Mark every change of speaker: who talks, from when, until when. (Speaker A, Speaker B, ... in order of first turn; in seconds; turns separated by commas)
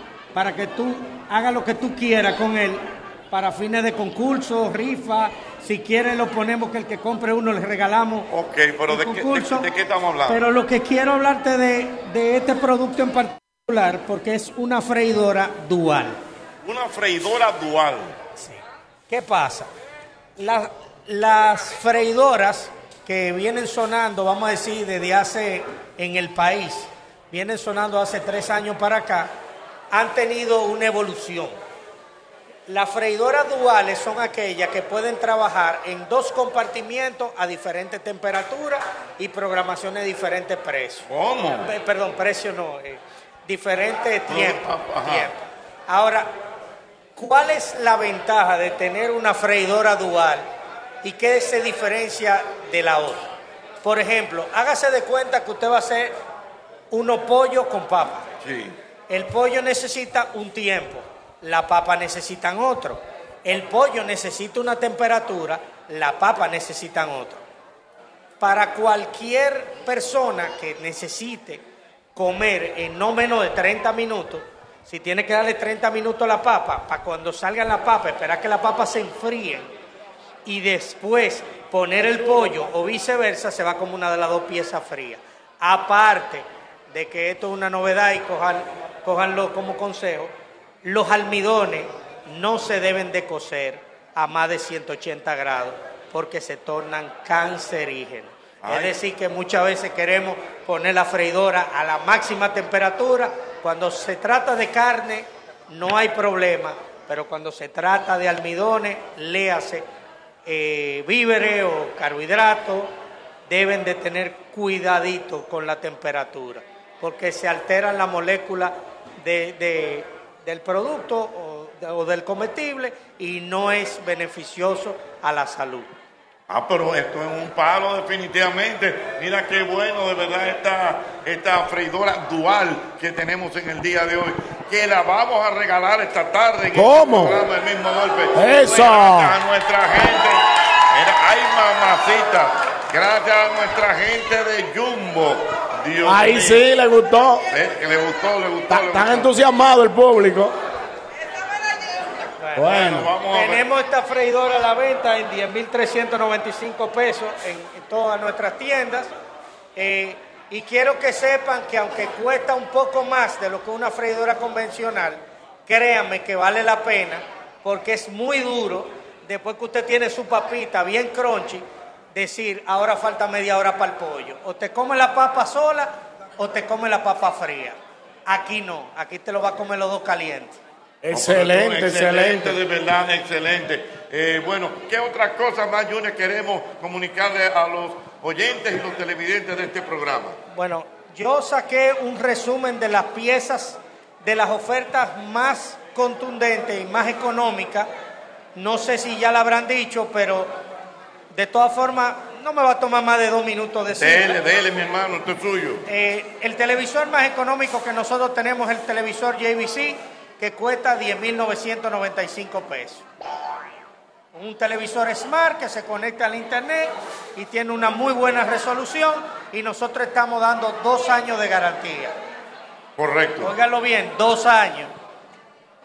Speaker A: 0.3-8.3, Speaker B: 8.3-10.4, Speaker A: 8.9-9.7, Speaker A: 10.3-16.2, Speaker B: 16.6-18.1, Speaker A: 18.4-19.7, Speaker A: 20.4-29.3, Speaker A: 29.9-31.5, Speaker A: 32.7-41.0, Speaker B: 41.1-41.7, Speaker A: 41.6-45.3, Speaker B: 44.3-45.3, Speaker A: 45.9-46.3, Speaker A: 47.1-50.5, Speaker A: 51.0-53.2, Speaker A: 53.8-56.1, Speaker A: 56.9-58.2, Speaker B: 58.4-58.7, Speaker A: 59.1-67.4, Speaker A: 68.4-71.6, Speaker A: 72.2-79.7, Speaker A: 80.4-90.3, Speaker A: 90.8-109.8, Speaker B: 98.6-98.9, Speaker A: 110.5-112.9, Speaker A: 113.5-125.9, Speaker B: 126.5-146.7, Speaker C: 136.7-137.4, Speaker C: 138.3-139.3, Speaker C: 146.0-147.4, Speaker B: 147.5-149.3, Speaker C: 148.7-150.5, Speaker A: 152.4-159.1, Speaker C: 152.6-153.1, Speaker B: 152.6-153.6, Speaker A: 159.8-180.6, Speaker C: 181.0-182.6, Speaker B: 181.1-190.3, Speaker A: 190.5-197.9, Speaker A: 198.5-200.5, Speaker A: 201.3-204.4, Speaker B: 204.0-205.8, Speaker A: 205.9-213.0, Speaker A: 214.3-222.1, Speaker B: 223.0-223.5, Speaker A: 223.4-224.9